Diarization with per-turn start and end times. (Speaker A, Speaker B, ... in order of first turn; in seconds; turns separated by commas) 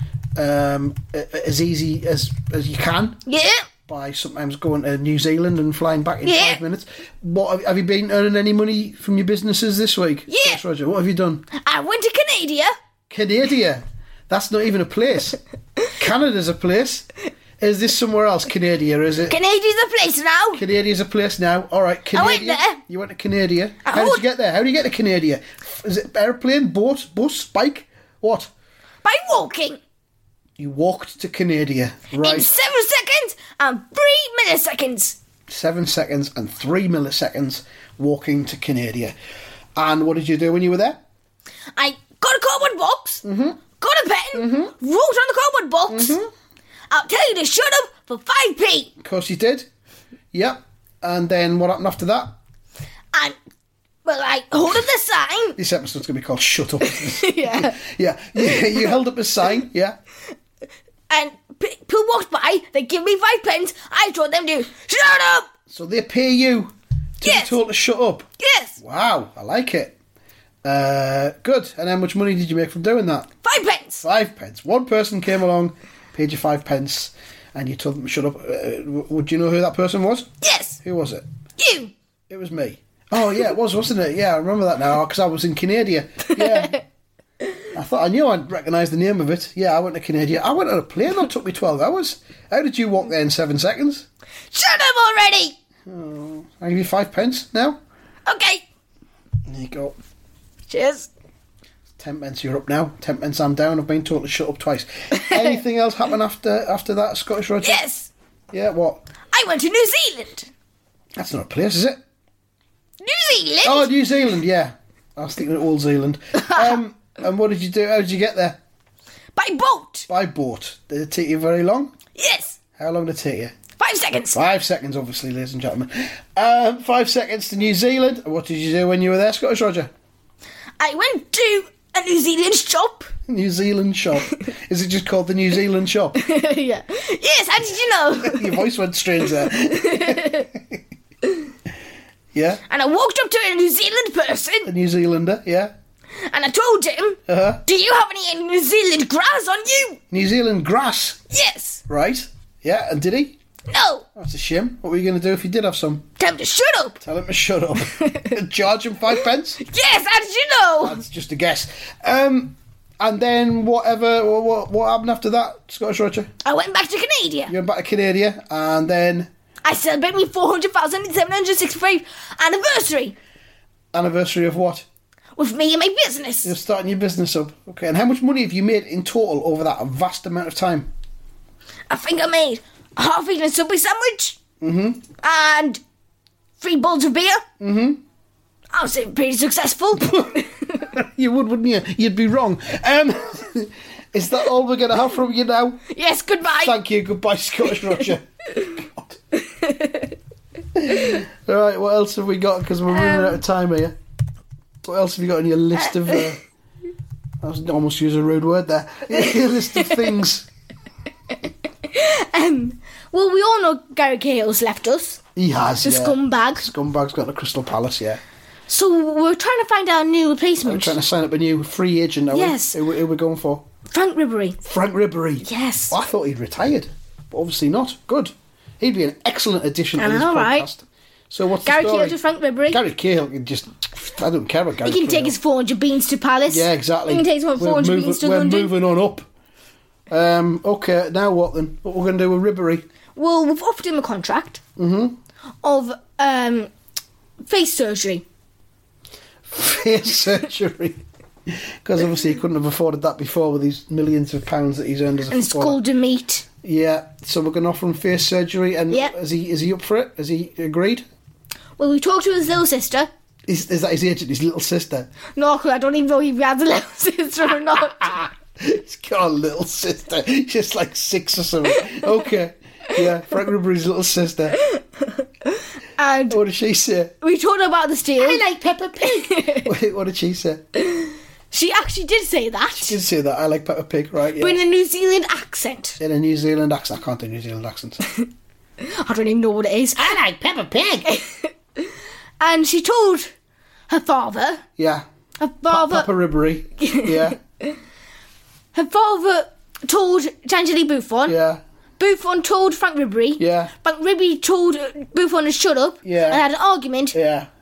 Speaker A: 0.4-3.2, Speaker B: 3.3-3.7, Speaker A: 3.9-11.5, Speaker B: 6.2-6.6, Speaker B: 10.3-10.6, Speaker B: 11.5-12.7, Speaker A: 13.1-15.4, Speaker A: 15.9-17.1, Speaker A: 17.6-19.4, Speaker B: 19.3-20.6, Speaker A: 20.5-28.5, Speaker B: 22.1-22.8, Speaker B: 23.9-24.2, Speaker B: 29.0-29.8, Speaker A: 30.6-32.5, Speaker B: 32.2-35.2, Speaker A: 35.5-39.1, Speaker A: 39.8-41.0, Speaker B: 41.8-43.2, Speaker A: 43.2-43.6, Speaker B: 43.8-46.2, Speaker A: 44.3-44.7, Speaker A: 45.9-46.3, Speaker B: 46.9-48.9, Speaker A: 49.0-49.7, Speaker A: 50.3-52.3, Speaker B: 54.0-55.6, Speaker A: 55.6-60.0, Speaker B: 56.8-57.8, Speaker B: 58.4-58.9, Speaker B: 61.1-65.5, Speaker A: 65.7-68.3, Speaker B: 67.2-67.6, Speaker B: 68.4-68.8, Speaker A: 68.8-70.0, Speaker A: 70.6-73.3, Speaker B: 73.4-74.0, Speaker A: 74.0-80.3, Speaker B: 80.4-80.8, Speaker A: 80.8-81.2, Speaker B: 81.6-81.9, Speaker A: 82.3-86.8, Speaker B: 86.3-86.8, Speaker A: 87.7-94.1, Speaker B: 94.5-95.6, Speaker A: 95.9-97.8, Speaker B: 98.3-98.6, Speaker A: 99.5-100.0, Speaker B: 100.7-101.1, Speaker A: 102.0-107.8, Speaker B: 105.1-105.6, Speaker B: 107.6-108.1, Speaker A: 108.5-109.0, Speaker B: 109.3-110.5, Speaker A: 111.2-112.0, Speaker B: 113.0-113.9, Speaker A: 113.6-118.6, Speaker B: 116.3-116.8, Speaker B: 119.4-120.1, Speaker A: 120.1-121.9, Speaker B: 122.2-122.6, Speaker A: 122.8-123.5, Speaker B: 123.8-124.4, Speaker A: 124.3-129.9, Speaker B: 130.8-133.1, Speaker A: 133.3-136.2, Speaker B: 136.2-138.7, Speaker A: 138.2-140.8, Speaker B: 139.4-140.5, Speaker A: 142.3-142.6, Speaker B: 142.7-144.7, Speaker A: 144.7-145.7, Speaker B: 146.2-150.0, Speaker A: 147.3-147.6, Speaker A: 150.1-151.2, Speaker B: 151.3-151.8, Speaker A: 151.9-153.4, Speaker B: 153.7-154.1, Speaker A: 154.2-156.1, Speaker B: 156.2-157.0, Speaker A: 157.0-159.6, Speaker B: 157.9-158.3, Speaker B: 159.6-161.0, Speaker A: 160.8-166.3, Speaker B: 166.4-167.5, Speaker A: 167.5-169.3, Speaker B: 169.7-173.2, Speaker A: 173.9-174.9, Speaker B: 175.4-176.6, Speaker A: 176.4-180.9, Speaker B: 181.9-184.4, Speaker A: 184.6-185.1, Speaker B: 185.2-185.8, Speaker B: 186.6-187.4, Speaker A: 187.6-188.0, Speaker B: 188.7-190.9, Speaker A: 190.0-195.8, Speaker B: 195.9-196.8, Speaker A: 196.5-199.2, Speaker B: 199.3-200.1, Speaker A: 200.8-203.9, Speaker B: 200.9-201.2, Speaker B: 202.9-203.4, Speaker A: 204.8-206.4, Speaker A: 207.4-210.5, Speaker B: 209.3-210.0, Speaker B: 211.8-215.2, Speaker A: 215.4-218.2, Speaker B: 215.8-216.7, Speaker B: 218.7-221.0, Speaker A: 220.6-223.6, Speaker B: 222.3-222.8, Speaker B: 223.9-224.6, Speaker A: 224.6-232.2, Speaker B: 225.4-226.0, Speaker B: 230.0-230.7, Speaker B: 231.6-232.8, Speaker A: 232.7-235.3, Speaker B: 234.8-238.7, Speaker A: 236.5-239.3, Speaker A: 240.1-242.8, Speaker B: 243.2-244.6, Speaker A: 244.8-245.2, Speaker B: 245.6-246.7, Speaker B: 247.5-248.2, Speaker A: 249.5-255.8, Speaker B: 255.3-256.4, Speaker A: 256.6-261.1, Speaker B: 261.8-263.1, Speaker A: 263.5-265.1, Speaker B: 265.4-268.3, Speaker A: 268.6-274.6, Speaker B: 274.6-276.4, Speaker A: 276.3-277.1, Speaker B: 277.2-278.4, Speaker A: 278.2-280.6, Speaker B: 279.0-279.7, Speaker B: 280.8-283.0, Speaker A: 282.8-284.6, Speaker B: 284.4-286.0, Speaker A: 286.0-288.0, Speaker B: 288.0-288.3, Speaker B: 288.8-290.2, Speaker A: 290.0-291.1, Speaker B: 291.1-293.3, Speaker B: 293.9-294.6, Speaker A: 294.8-295.1, Speaker B: 295.4-296.1, Speaker A: 295.7-297.4, Speaker B: 296.8-297.7, Speaker B: 298.7-301.4, Speaker A: 301.3-301.6, Speaker B: 302.0-307.2, Speaker A: 303.4-303.7, Speaker A: 306.0-306.4, Speaker A: 307.1-307.5